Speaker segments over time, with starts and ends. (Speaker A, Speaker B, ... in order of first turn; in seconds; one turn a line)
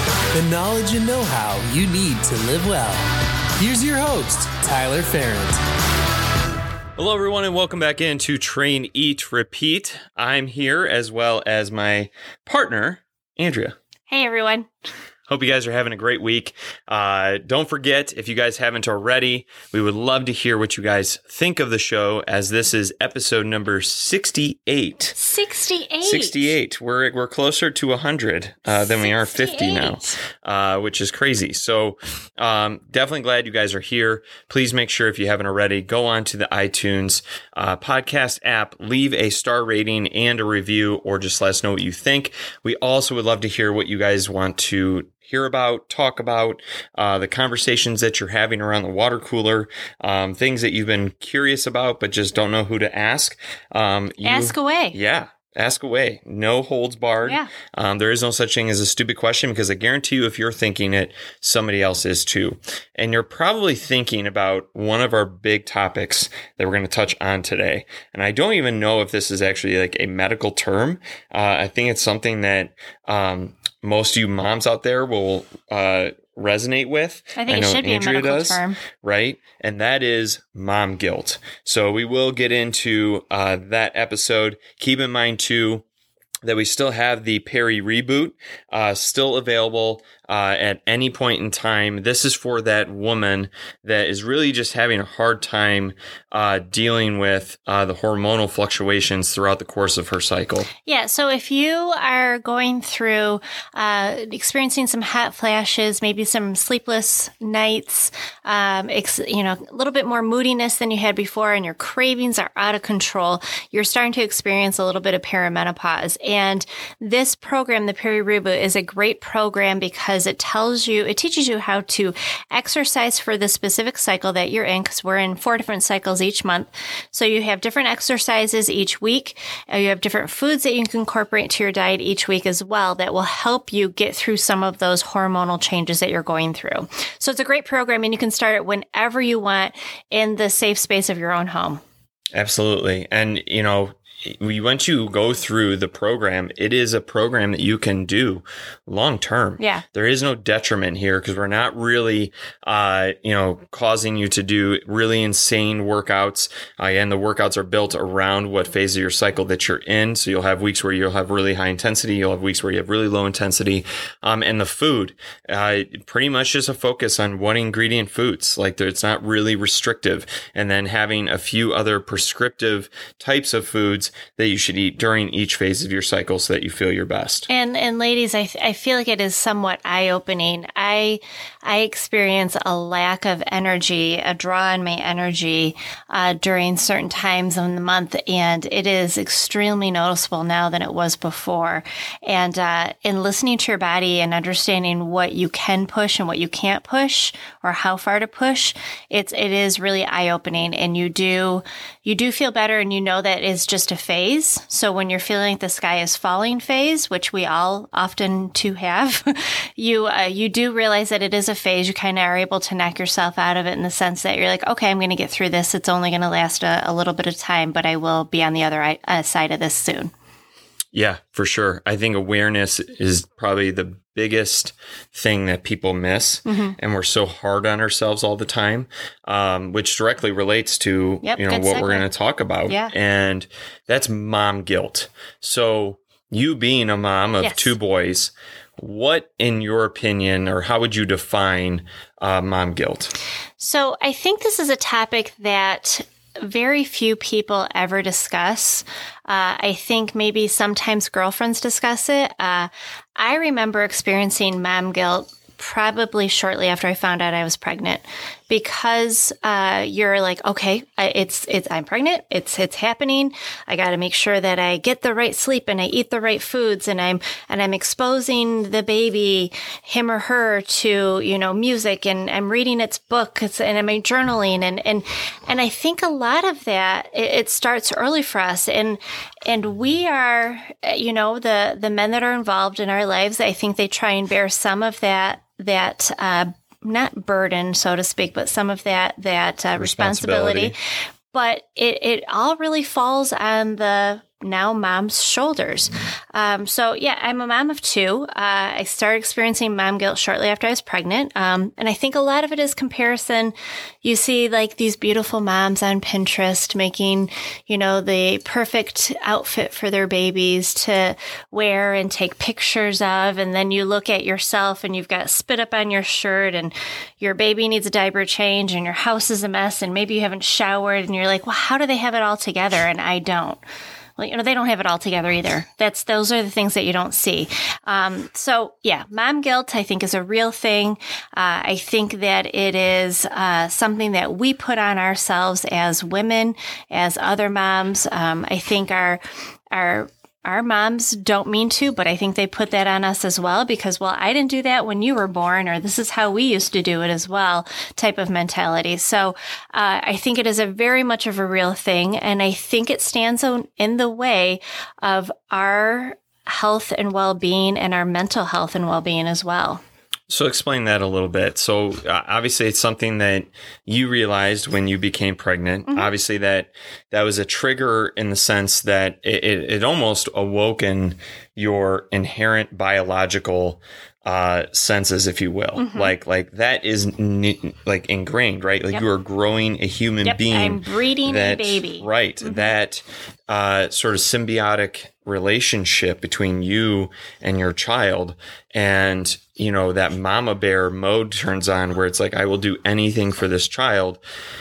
Speaker A: 0.3-3.0
Speaker A: 3.6-5.6
Speaker B: 7.0-13.8
Speaker C: 14.1-14.7
Speaker B: 15.3-25.1
Speaker C: 25.1-26.5
Speaker B: 26.0-85.8
Speaker C: 28.7-30.2
Speaker C: 54.2-55.0
Speaker C: 57.2-57.5
Speaker C: 77.3-78.8
Speaker B: 86.4-100.7
Speaker C: 100.8-141.8
Speaker B: 142.3-177.5
Speaker C: 149.6-149.8
Speaker C: 177.5-220.1
Speaker B: 220.9-243.1
Speaker C: 226.4-226.7
Speaker C: 231.2-232.0
Speaker C: 232.7-232.9
Speaker C: 237.4-237.7
Speaker C: 243.6-290.8
Speaker B: 289.8-290.7
Speaker C: 291.3-303.5
Speaker C: 304.0-323.6
Speaker C: 324.2-339.2
Speaker C: 339.7-359.8
Speaker B: 360.3-394.2
Speaker C: 375.8-376.1
Speaker C: 380.2-382.7